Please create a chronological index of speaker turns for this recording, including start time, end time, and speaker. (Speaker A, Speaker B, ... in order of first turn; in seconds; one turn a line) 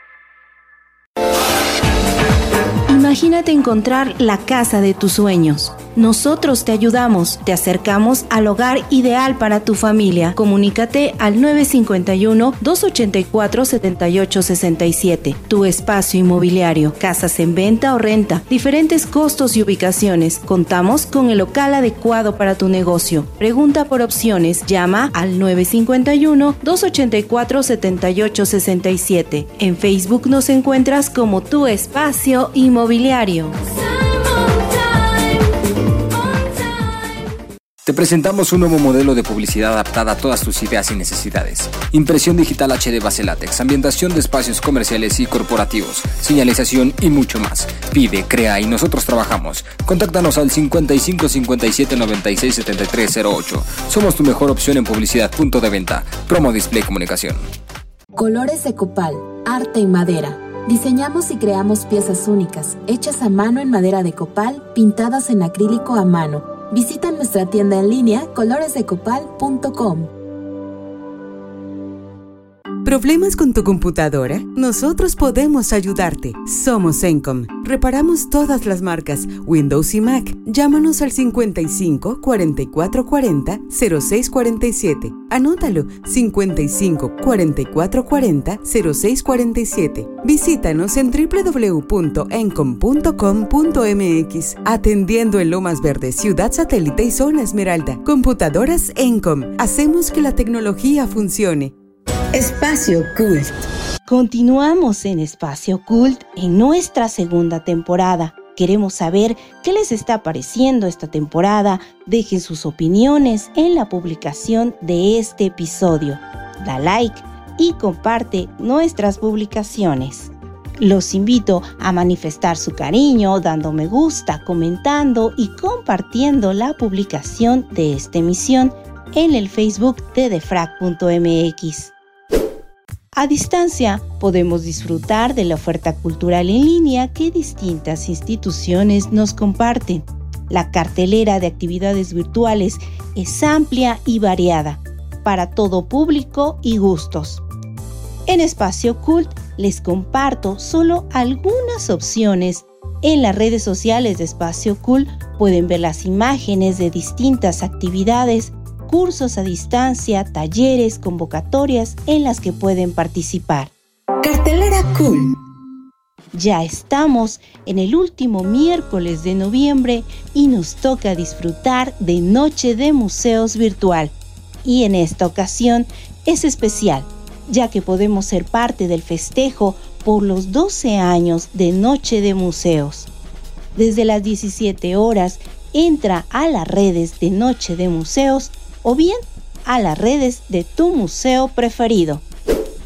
Speaker A: 2.9-33.5
Speaker B: 37.9-57.4
Speaker C: 58.1-70.1
Speaker D: 72.8-101.7
Speaker E: 102.3-103.7
Speaker A: 104.1-131.9
Speaker A: 133.1-147.4
Speaker A: 148.3-163.7
Speaker E: 164.2-165.4
Speaker A: 166.3-183.1
Speaker A: 183.8-192.2